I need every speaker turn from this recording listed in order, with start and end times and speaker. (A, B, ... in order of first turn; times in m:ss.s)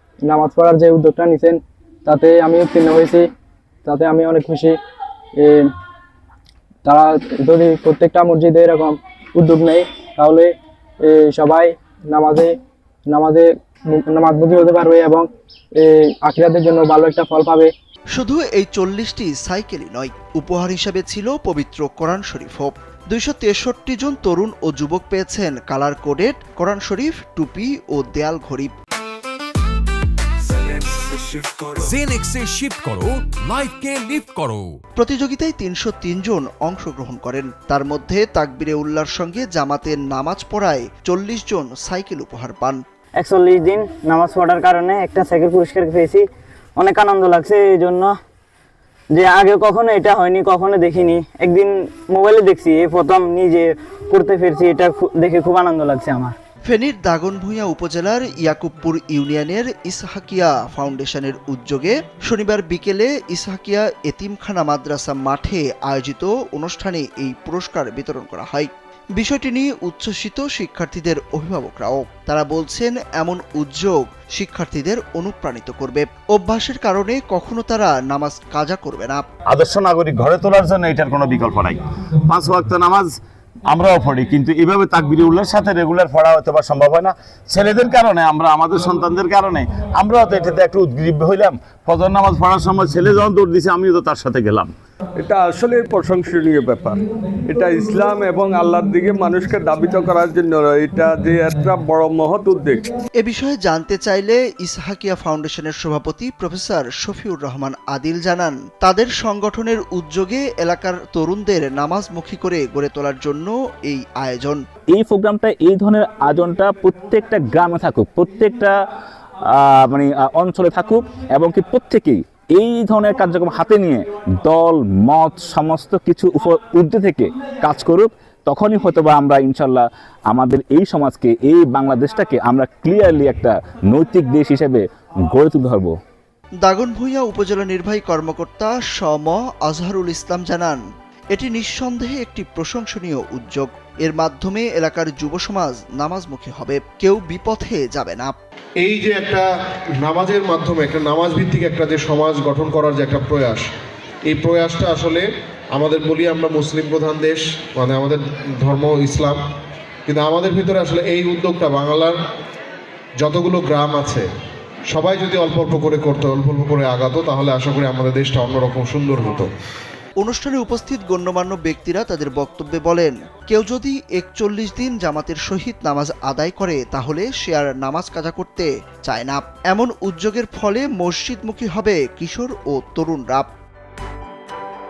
0:00.3-0:03.2 A
0:03.9-0:04.7 A
0:05.4-0:05.7 A
0:06.8-0:10.5 A
0:11.1-0:12.5 A
0:13.1-0:15.3 A
0:15.8-0:17.7 A
0:18.1-0:28.7 B
0:31.8-0:34.8 C
0:35.0-0:42.8 B
0:43.2-0:46.2 D
0:46.8-0:48.1 D
0:49.1-0:56.3 D
0:56.7-1:19.2 B
1:19.4-1:34.7 E
1:35.2-1:37.0 F
1:37.5-1:42.8 F
1:43.2-1:54.6 B
1:54.9-1:58.7 G
1:59.5-2:16.0 G
2:16.6-2:20.8 B
2:21.3-2:28.4 B
2:28.8-2:29.5 H
2:30.0-2:33.7 H
2:34.3-2:39.4 H
2:40.1-2:42.2 H
2:43.2-2:44.3 H
2:44.9-2:49.5 H
2:50.2-3:03.5 B